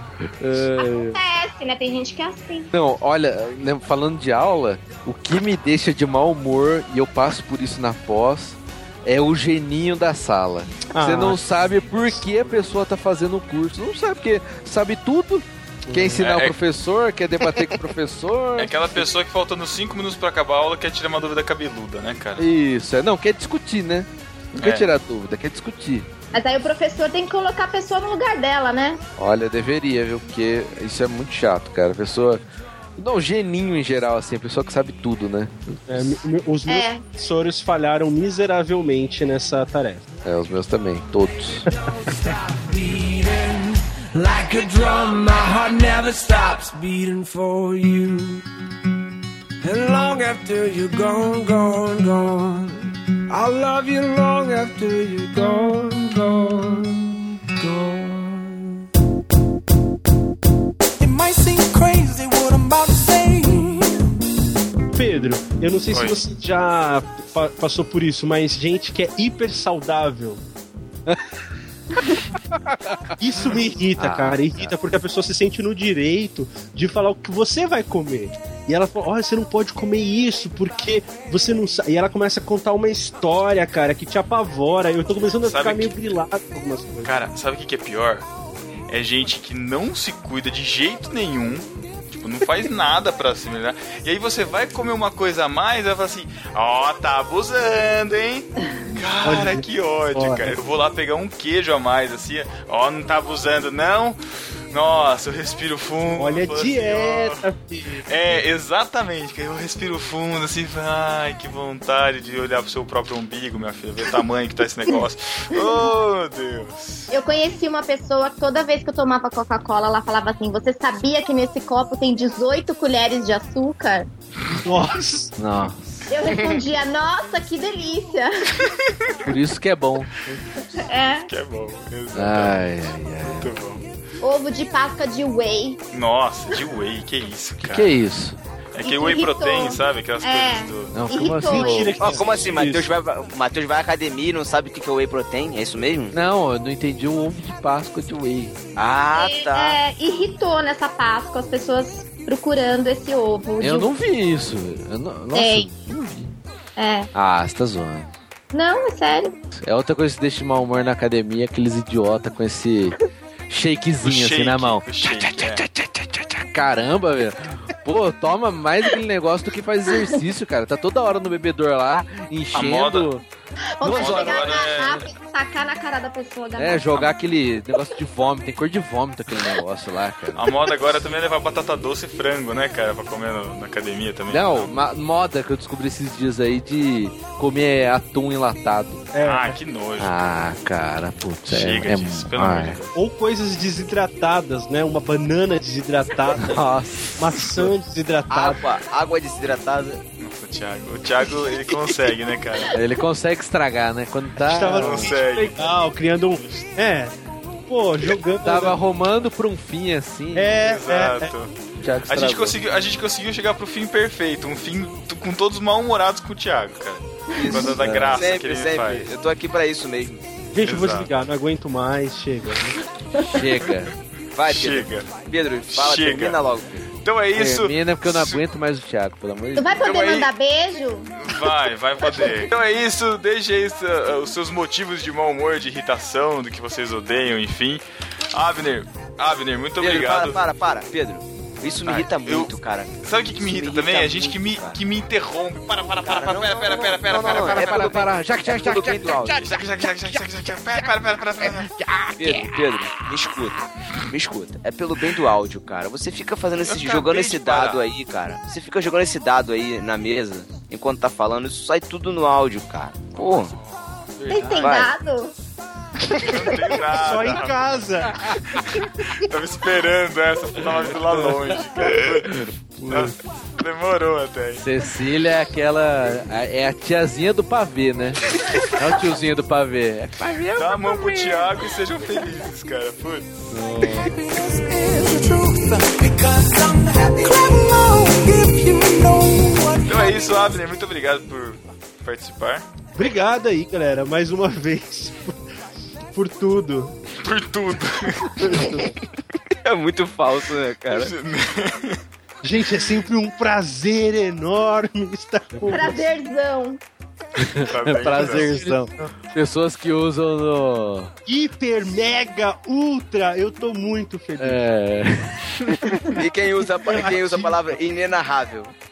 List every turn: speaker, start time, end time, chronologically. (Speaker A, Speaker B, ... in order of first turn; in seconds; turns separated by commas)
Speaker A: 0.2-1.2, Speaker B: 0.8-2.7, Speaker A: 2.7-19.1, Speaker C: 10.9-11.4, Speaker C: 15.8-16.2, Speaker D: 16.2-16.6, Speaker D: 18.6-22.4, Speaker A: 22.4-24.1, Speaker D: 24.5-24.9, Speaker A: 24.6-26.1, Speaker B: 26.3-29.0, Speaker A: 29.2-32.4, Speaker A: 33.0-36.1, Speaker C: 35.9-40.0, Speaker B: 36.7-37.0, Speaker A: 40.2-41.7, Speaker E: 41.7-48.4, Speaker E: 49.6-58.8, Speaker E: 61.0-64.1, Speaker C: 64.9-70.4, Speaker D: 65.9-66.2, Speaker A: 72.5-73.2, Speaker C: 73.2-87.1, Speaker A: 74.0-74.7, Speaker D: 85.4-86.0, Speaker D: 87.0-88.2, Speaker D: 88.9-104.2, Speaker C: 99.2-100.5, Speaker D: 104.7-107.4, Speaker C: 106.2-108.0, Speaker D: 108.1-117.1, Speaker B: 117.1-124.1, Speaker C: 124.6-125.3, Speaker A: 125.4-126.0, Speaker B: 126.1-128.7, Speaker D: 128.8-129.1, Speaker A: 129.2-130.3, Speaker B: 130.8-131.3, Speaker D: 131.3-133.8, Speaker A: 132.1-133.5, Speaker B: 134.2-135.8, Speaker D: 135.9-138.0, Speaker A: 137.6-138.4, Speaker D: 138.7-140.9, Speaker B: 138.8-142.0, Speaker A: 140.9-142.2, Speaker C: 141.3-142.9, Speaker F: 142.0-146.1, Speaker A: 146.1-148.6, Speaker F: 148.8-149.8, Speaker B: 149.1-153.9, Speaker A: 153.6-156.3, Speaker B: 155.3-155.7, Speaker B: 156.8-157.1, Speaker A: 157.1-158.1, Speaker B: 158.5-159.4, Speaker A: 159.6-163.0, Speaker A: 163.5-173.2, Speaker D: 164.0-165.6, Speaker D: 172.5-173.2, Speaker B: 173.8-177.0, Speaker A: 173.8-174.9, Speaker D: 173.8-175.1, Speaker A: 176.6-180.5, Speaker D: 180.3-184.7, Speaker A: 184.3-189.1, Speaker C: 189.1-189.6, Speaker D: 189.2-190.2, Speaker A: 190.0-192.8, Speaker D: 191.5-192.9, Speaker C: 192.9-196.6, Speaker A: 196.4-197.2, Speaker C: 197.2-198.6, Speaker F: 198.3-200.0, Speaker D: 200.2-202.8, Speaker A: 202.7-205.1, Speaker C: 204.4-207.1, Speaker D: 204.6-205.8, Speaker D: 206.3-206.7, Speaker C: 207.7-208.8, Speaker A: 208.4-210.7, Speaker C: 210.3-211.3, Speaker D: 210.6-211.5, Speaker A: 211.8-212.6, Speaker D: 212.1-219.1, Speaker B: 217.4-217.7, Speaker F: 217.4-220.2, Speaker A: 217.6-218.2, Speaker C: 220.5-222.8, Speaker D: 220.6-221.1, Speaker A: 223.3-223.9, Speaker F: 224.3-226.8, Speaker D: 224.4-225.1, Speaker D: 225.7-226.4, Speaker D: 227.0-228.4, Speaker A: 227.3-229.8, Speaker B: 229.6-231.1, Speaker D: 229.8-230.3, Speaker D: 231.2-240.4, Speaker F: 239.8-244.8, Speaker D: 241.8-248.1, Speaker F: 246.0-249.4, Speaker A: 247.2-250.2, Speaker D: 249.2-251.7, Speaker A: 251.4-252.7, Speaker F: 252.2-253.6, Speaker F: 254.1-263.5, Speaker D: 256.6-257.8, Speaker D: 263.5-264.7, Speaker B: 264.3-265.3, Speaker F: 264.6-264.9, Speaker D: 266.2-267.7, Speaker C: 266.8-268.2, Speaker D: 268.3-274.6, Speaker A: 271.8-273.1, Speaker A: 274.6-281.3, Speaker D: 280.6-283.3, Speaker A: 283.5-284.1, Speaker E: 284.0-290.3, Speaker D: 289.9-292.6, Speaker C: 292.9-295.4, Speaker C: 296.1-296.9, Speaker D: 297.2-298.6, Speaker C: 298.4-298.9, Speaker F: 299.6-301.1, Speaker D: 300.9-302.0, Speaker C: 302.4-306.1, Speaker B: 305.7-306.8, Speaker A: 307.4-311.1, Speaker D: 307.6-308.6, Speaker C: 308.1-309.1, Speaker C: 311.2-314.6, Speaker A: 314.4-315.9, Speaker F: 316.2-318.7, Speaker C: 316.8-317.6